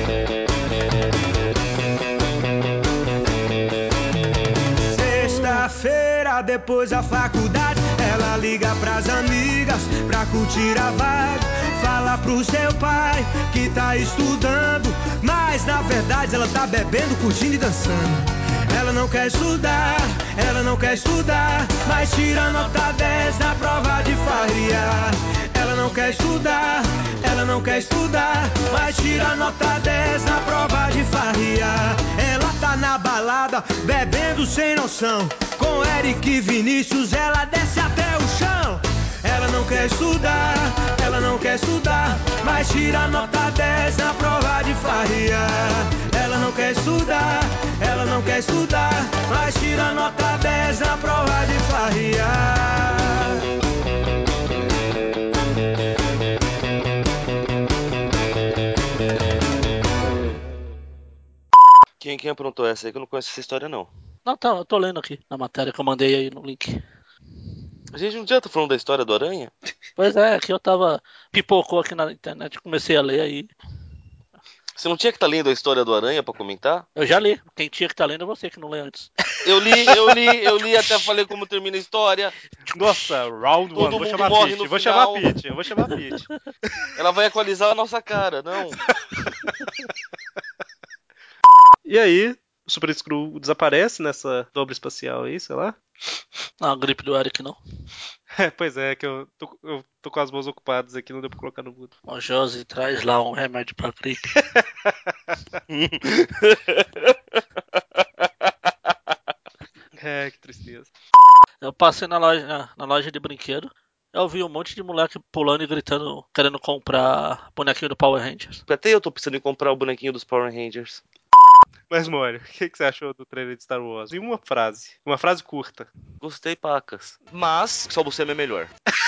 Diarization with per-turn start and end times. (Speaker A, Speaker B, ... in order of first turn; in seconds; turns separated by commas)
Speaker A: 4.8-53.5, Speaker B: 62.0-63.9, Speaker C: 64.2-66.8, Speaker B: 67.9-69.5, Speaker C: 70.0-73.5, Speaker B: 74.8-76.9, Speaker C: 77.0-79.1, Speaker B: 79.4-82.3, Speaker D: 82.7-86.9, Speaker B: 83.8-85.3, Speaker B: 87.0-88.9, Speaker D: 89.4-89.8, Speaker D: 91.9-95.8, Speaker C: 96.6-97.6, Speaker D: 98.3-101.9, Speaker C: 102.1-104.4, Speaker D: 104.5-104.9, Speaker B: 105.7-107.2, Speaker D: 110.0-110.9, Speaker C: 111.6-118.6, Speaker B: 118.7-121.0, Speaker D: 121.9-125.9, Speaker B: 126.2-128.7